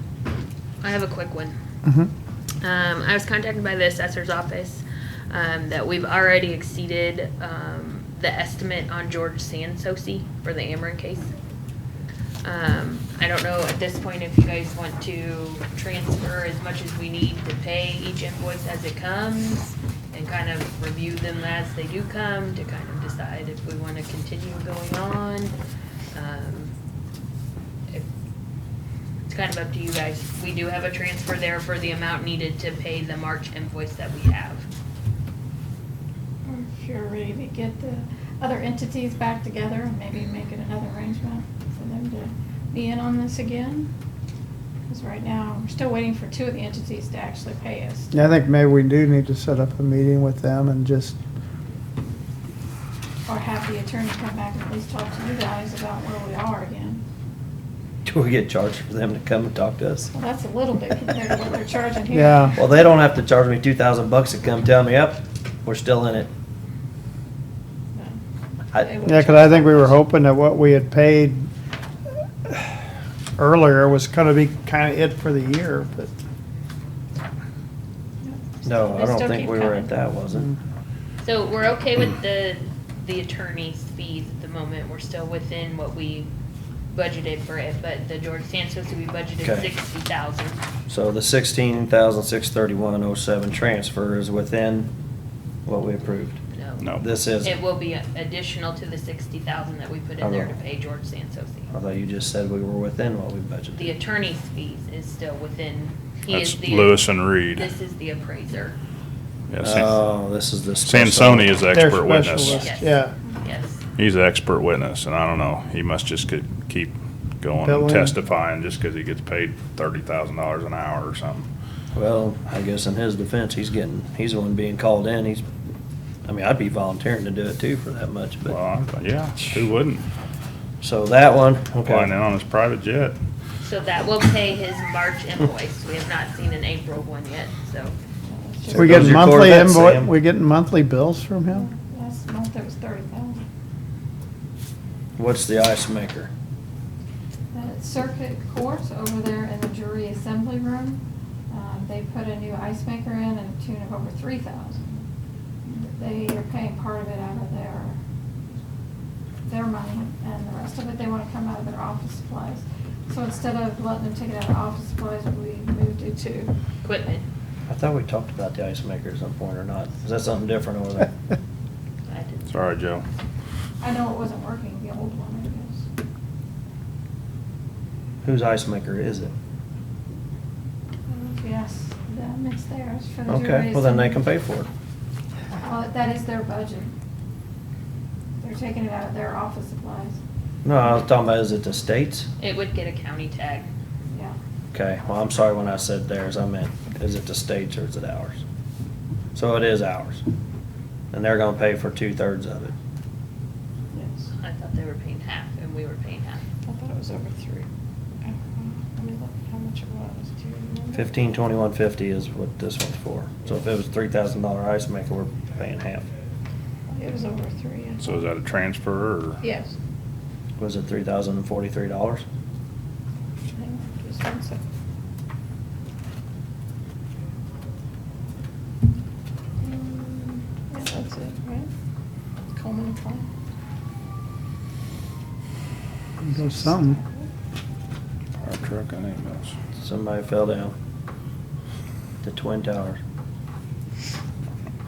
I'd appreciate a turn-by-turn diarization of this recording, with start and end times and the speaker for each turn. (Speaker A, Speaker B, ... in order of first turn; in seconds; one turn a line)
Speaker A: 0.8-1.5
Speaker A: 2.6-11.3
Speaker A: 12.4-25.5
Speaker A: 26.1-26.7
Speaker A: 29.3-34.7
Speaker B: 36.4-43.9
Speaker B: 44.9-48.1
Speaker C: 48.1-51.1
Speaker B: 53.2-57.0
Speaker D: 58.0-60.1
Speaker B: 60.1-62.8
Speaker C: 62.1-62.6
Speaker D: 62.5-66.3
Speaker D: 68.7-69.3
Speaker B: 68.8-70.0
Speaker C: 69.0-71.5
Speaker C: 72.4-72.8
Speaker C: 73.4-76.1
Speaker B: 78.2-79.9
Speaker D: 78.6-80.5
Speaker A: 81.2-86.3
Speaker A: 86.9-90.6
Speaker D: 89.4-89.7
Speaker D: 90.9-94.9
Speaker D: 95.7-96.4
Speaker A: 96.5-96.9
Speaker E: 96.8-97.1
Speaker D: 97.0-97.6
Speaker A: 97.4-101.7
Speaker D: 100.2-100.5
Speaker D: 101.7-103.9
Speaker A: 103.7-108.8
Speaker E: 106.3-107.7
Speaker E: 109.5-109.9
Speaker D: 109.6-111.7
Speaker E: 110.8-112.6
Speaker C: 111.7-113.1
Speaker A: 112.4-113.8
Speaker E: 114.0-121.5
Speaker C: 117.6-118.1
Speaker D: 121.9-125.4
Speaker D: 126.2-128.6
Speaker E: 128.4-130.0
Speaker D: 130.8-132.1
Speaker E: 131.8-133.2
Speaker A: 133.6-137.9
Speaker B: 138.2-139.0
Speaker D: 138.7-140.1
Speaker C: 138.7-141.7
Speaker B: 141.5-143.4
Speaker D: 145.2-146.3
Speaker B: 147.5-155.0
Speaker B: 155.6-158.0
Speaker B: 159.4-166.5
Speaker A: 166.8-167.2
Speaker D: 167.7-171.1
Speaker A: 172.1-172.5
Speaker E: 172.5-173.0
Speaker B: 173.8-175.9
Speaker D: 178.2-179.3
Speaker B: 181.1-184.2
Speaker D: 183.3-184.7
Speaker B: 185.5-186.9
Speaker B: 188.4-190.2
Speaker D: 190.6-192.3
Speaker A: 192.4-193.7
Speaker D: 194.7-198.4
Speaker D: 199.3-200.2
Speaker D: 201.1-202.7
Speaker B: 203.9-204.3
Speaker A: 204.4-206.4
Speaker B: 206.6-207.7
Speaker B: 208.2-211.3
Speaker D: 210.9-216.1
Speaker B: 216.9-218.2
Speaker E: 218.0-219.4
Speaker B: 219.4-219.7
Speaker D: 220.6-222.2
Speaker B: 223.5-224.6
Speaker B: 229.6-231.7
Speaker B: 232.5-233.3
Speaker B: 236.2-237.3
Speaker C: 236.2-236.9
Speaker E: 238.4-239.6
Speaker D: 239.8-240.7
Speaker D: 242.2-243.0